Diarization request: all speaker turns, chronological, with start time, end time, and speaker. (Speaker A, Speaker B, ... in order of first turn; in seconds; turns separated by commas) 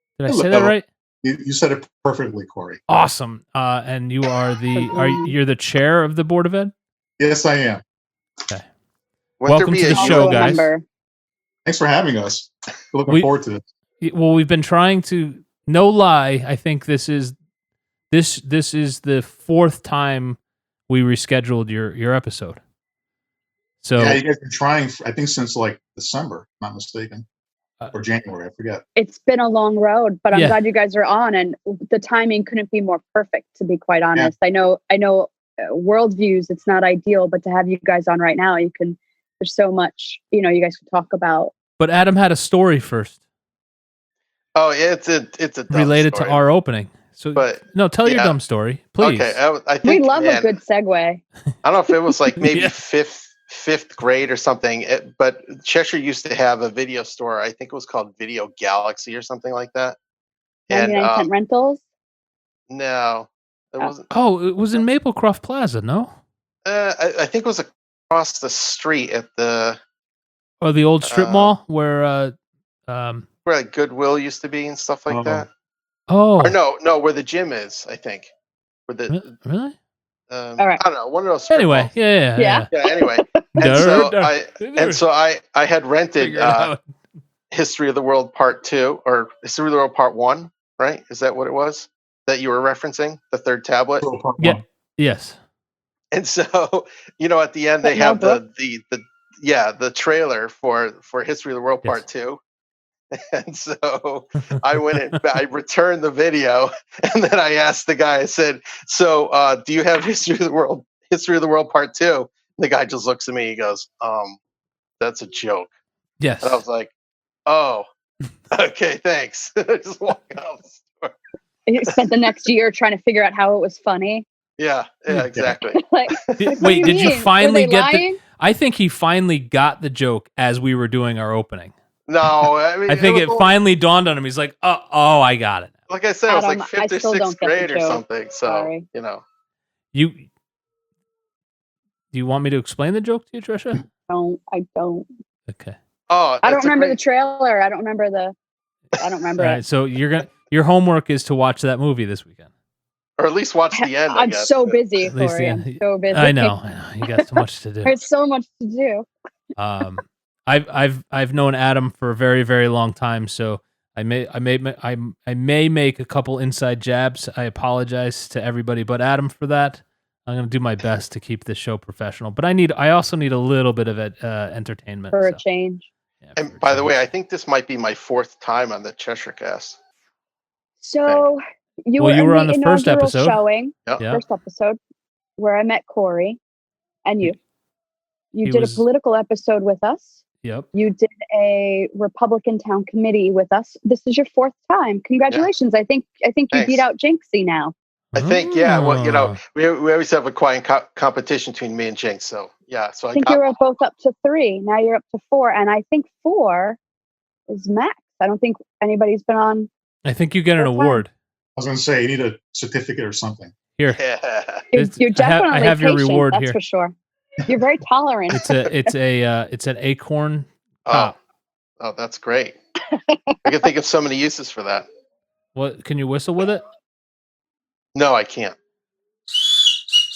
Speaker A: 0.2-0.8, Speaker B: 0.3-2.8, Speaker A: 2.9-6.7, Speaker C: 4.7-5.3, Speaker B: 7.2-7.8, Speaker D: 9.4-10.5, Speaker A: 9.4-10.7, Speaker C: 9.9-10.8, Speaker B: 11.6-13.6, Speaker A: 14.0-17.4, Speaker A: 18.1-20.4, Speaker A: 20.9-22.6, Speaker A: 23.8-24.2, Speaker B: 24.0-27.2, Speaker B: 27.9-28.8, Speaker C: 28.9-41.5, Speaker A: 30.3-30.6, Speaker A: 41.8-43.1, Speaker D: 44.5-46.4, Speaker A: 45.7-49.4, Speaker D: 47.4-48.4, Speaker D: 49.0-50.6, Speaker C: 49.8-51.2, Speaker D: 51.6-60.0, Speaker A: 52.4-52.7, Speaker D: 60.7-61.3, Speaker C: 60.7-61.8, Speaker D: 62.7-64.1, Speaker A: 64.1-66.1, Speaker D: 66.6-69.8, Speaker A: 70.6-72.3, Speaker D: 71.0-71.5, Speaker A: 72.9-73.2, Speaker D: 73.5-75.5, Speaker B: 75.1-75.4, Speaker A: 76.1-76.6, Speaker D: 76.4-78.3, Speaker D: 78.9-79.2, Speaker A: 79.1-79.7, Speaker D: 80.3-81.9, Speaker A: 81.5-82.7, Speaker C: 82.4-84.0, Speaker D: 82.7-86.7, Speaker A: 83.6-85.0, Speaker A: 86.2-86.8, Speaker D: 87.5-94.0, Speaker B: 94.0-94.6, Speaker A: 94.4-95.4, Speaker D: 96.1-102.4, Speaker C: 97.8-98.4, Speaker D: 103.1-114.4, Speaker D: 115.0-115.7, Speaker A: 116.2-116.6, Speaker D: 116.4-116.9, Speaker D: 117.5-117.9, Speaker D: 118.5-121.2, Speaker C: 121.7-124.2, Speaker D: 124.6-127.0, Speaker C: 125.7-128.2, Speaker A: 126.4-131.7, Speaker D: 132.1-133.5, Speaker A: 132.4-135.7, Speaker D: 135.9-139.2, Speaker C: 136.3-138.9, Speaker A: 139.9-140.2, Speaker A: 142.1-143.8, Speaker C: 144.1-145.1, Speaker A: 145.5-145.8, Speaker D: 146.1-147.0, Speaker C: 146.4-148.3, Speaker C: 149.0-149.6, Speaker A: 149.4-152.5, Speaker D: 153.2-155.1, Speaker C: 153.7-157.3, Speaker A: 155.0-157.9, Speaker C: 157.8-159.1, Speaker A: 159.6-175.4, Speaker C: 175.1-175.9, Speaker A: 176.2-176.9, Speaker D: 176.4-179.8, Speaker C: 180.8-184.8, Speaker A: 182.0-183.4, Speaker A: 184.0-184.2, Speaker C: 185.4-186.4, Speaker C: 187.0-187.3, Speaker C: 188.3-190.2, Speaker A: 188.4-188.8, Speaker A: 190.4-190.7, Speaker C: 190.7-197.7, Speaker D: 196.5-196.9, Speaker D: 198.1-203.4, Speaker A: 198.1-199.4, Speaker C: 203.1-206.8, Speaker C: 207.5-209.7, Speaker A: 210.0-211.1, Speaker C: 210.6-211.0, Speaker B: 211.6-213.5, Speaker D: 213.9-214.7, Speaker C: 214.7-216.9, Speaker A: 214.7-216.6, Speaker C: 217.4-218.9, Speaker A: 218.3-221.1, Speaker D: 220.8-221.1, Speaker D: 221.8-222.6, Speaker C: 222.9-223.5, Speaker D: 223.4-224.8, Speaker A: 225.5-226.6, Speaker D: 227.9-228.5